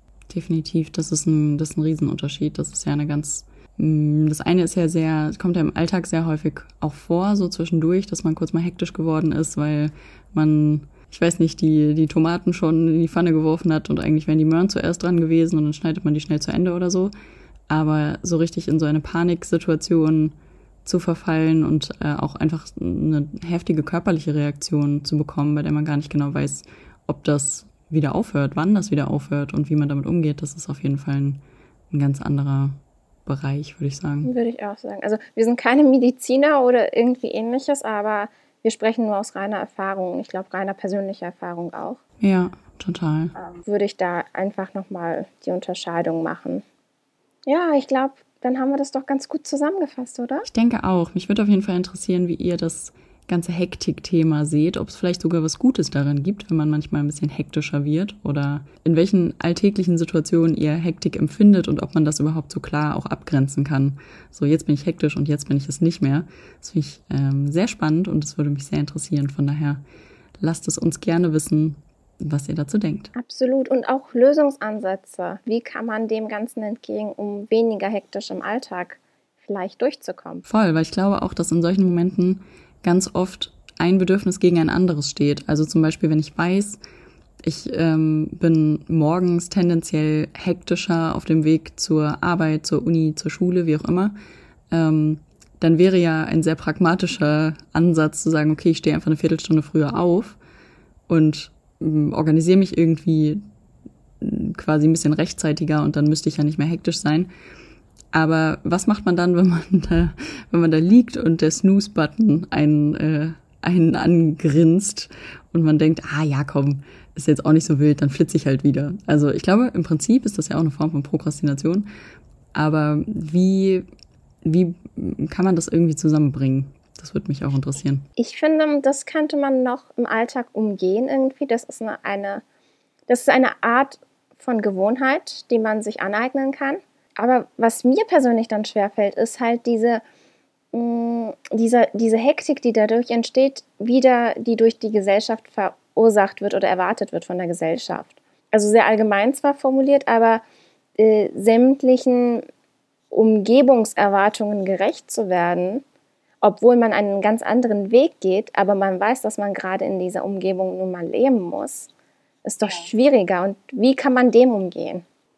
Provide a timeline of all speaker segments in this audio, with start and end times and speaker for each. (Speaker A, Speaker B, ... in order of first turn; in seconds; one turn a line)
Speaker A: 0.3-17.1
Speaker A: 17.7-32.7
Speaker A: 33.2-34.3
Speaker B: 34.2-42.0
Speaker A: 42.2-43.3
Speaker B: 43.4-46.6
Speaker B: 47.5-50.5
Speaker A: 50.5-69.8
Speaker A: 70.4-73.1
Speaker B: 73.1-80.4
Speaker A: 80.5-86.8
Speaker A: 87.4-94.1
Speaker A: 94.7-100.4
Speaker A: 101.1-103.4
Speaker A: 104.2-107.3
Speaker A: 108.1-121.9
Speaker A: 122.5-123.8
Speaker A: 124.4-128.0
Speaker B: 128.2-132.4
Speaker B: 133.1-140.0
Speaker B: 140.7-150.4
Speaker B: 151.0-152.4
Speaker B: 153.1-155.8
Speaker B: 156.4-161.9
Speaker B: 162.4-165.0